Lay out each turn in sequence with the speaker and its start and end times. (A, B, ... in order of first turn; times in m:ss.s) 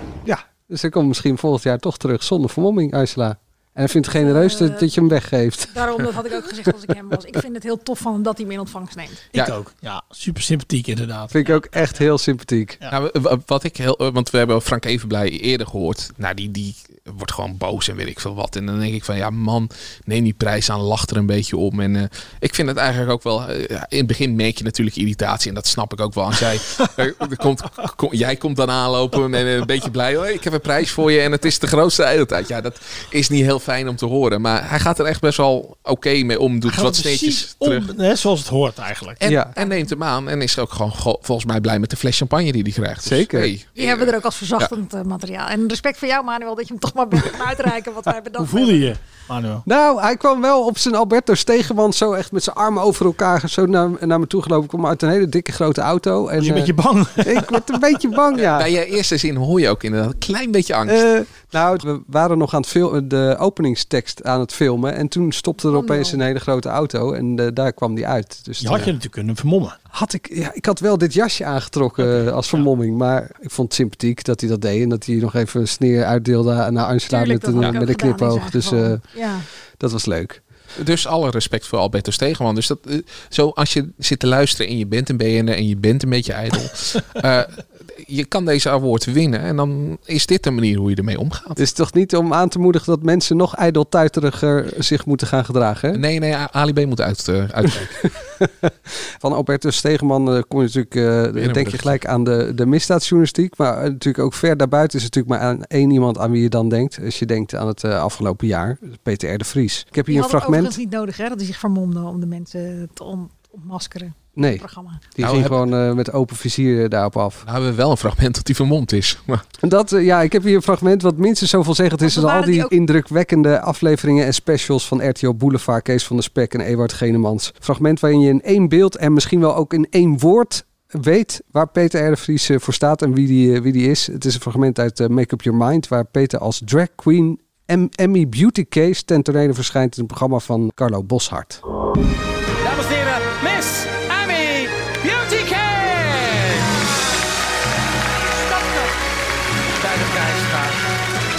0:00.2-0:06.0 A
0:04.2-0:04.9 B
0:05.7-0:09.2 B
0:09.3-0:11.6 C
0:11.3-0:12.8 A
0:12.9-0:37.9 D
0:36.6-0:39.2 C
0:39.2-0:44.0 D
0:39.2-0:39.5 A
0:39.6-0:39.8 B
0:43.0-0:43.5 A
0:43.8-0:48.9 B
0:48.4-0:49.6 C
0:49.7-0:58.7 A
0:56.4-0:57.6 C
0:58.4-1:01.1 D
1:00.9-1:08.9 A
1:05.7-1:06.2 B
1:08.6-1:09.8 C
1:09.9-1:19.0 A
1:17.1-1:19.4 B
1:19.8-1:20.4 A
1:20.8-1:31.6 D
1:31.6-1:36.0 A
1:35.9-1:38.0 D
1:37.7-1:50.8 A
1:41.4-1:42.0 D
1:50.1-1:55.0 B
1:54.4-1:54.6 A
1:55.2-1:57.4 A
1:55.2-1:55.7 D
1:57.4-1:59.4 D
1:59.6-2:21.6 A
2:02.0-2:02.7 B
2:22.6-2:26.7 E
2:28.2-2:28.9 E
2:29.8-2:30.8 E